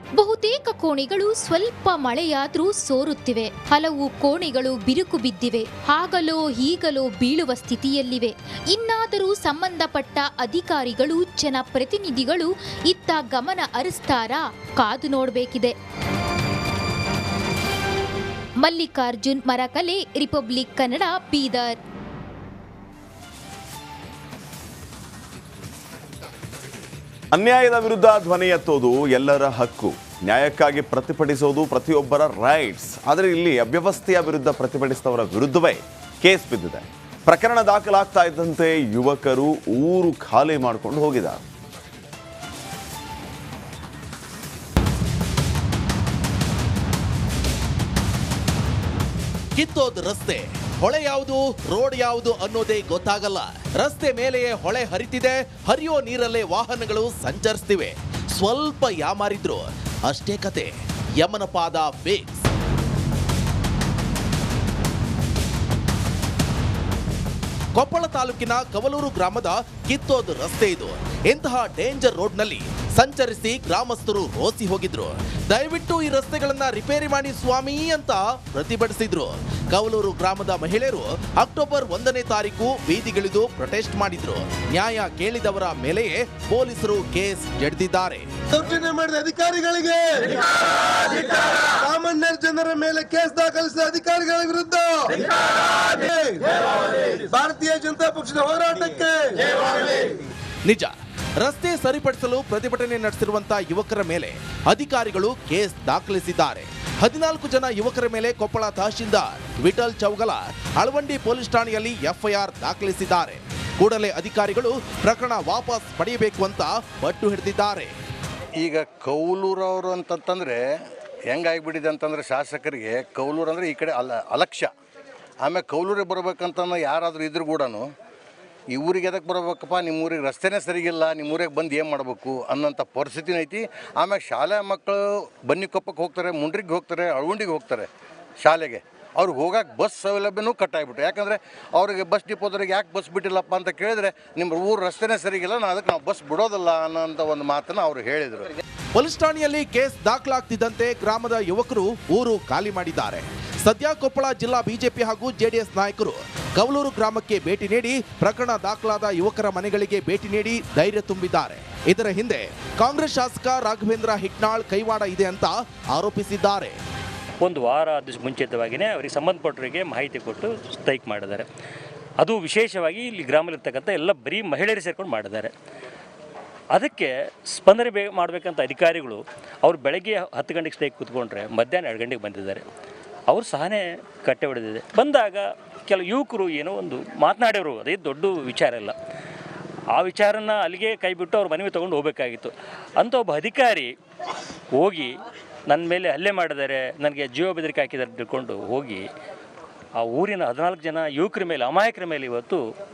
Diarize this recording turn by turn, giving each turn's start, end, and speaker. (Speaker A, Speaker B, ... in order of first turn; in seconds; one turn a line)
Speaker A: 0.2-15.7
Speaker A: 18.6-21.8
Speaker B: 27.3-41.4
Speaker C: 49.5-62.5
Speaker C: 67.8-88.3
Speaker D: 88.6-90.4
Speaker D: 91.0-95.1
Speaker D: 95.8-100.1
Speaker C: 100.7-117.9
Speaker E: 118.6-120.6
Speaker E: 121.3-124.7
Speaker E: 125.4-127.9
Speaker E: 128.7-137.9
Speaker E: 138.4-148.5
Speaker C: 148.9-166.8
Speaker F: 167.4-171.5
Speaker F: 172.2-175.5
Speaker F: 176.7-182.6
Speaker F: 183.3-188.9
Speaker F: 189.9-193.9
Speaker F: 194.8-195.1
Speaker F: 195.7-199.1
Speaker F: 200.0-202.6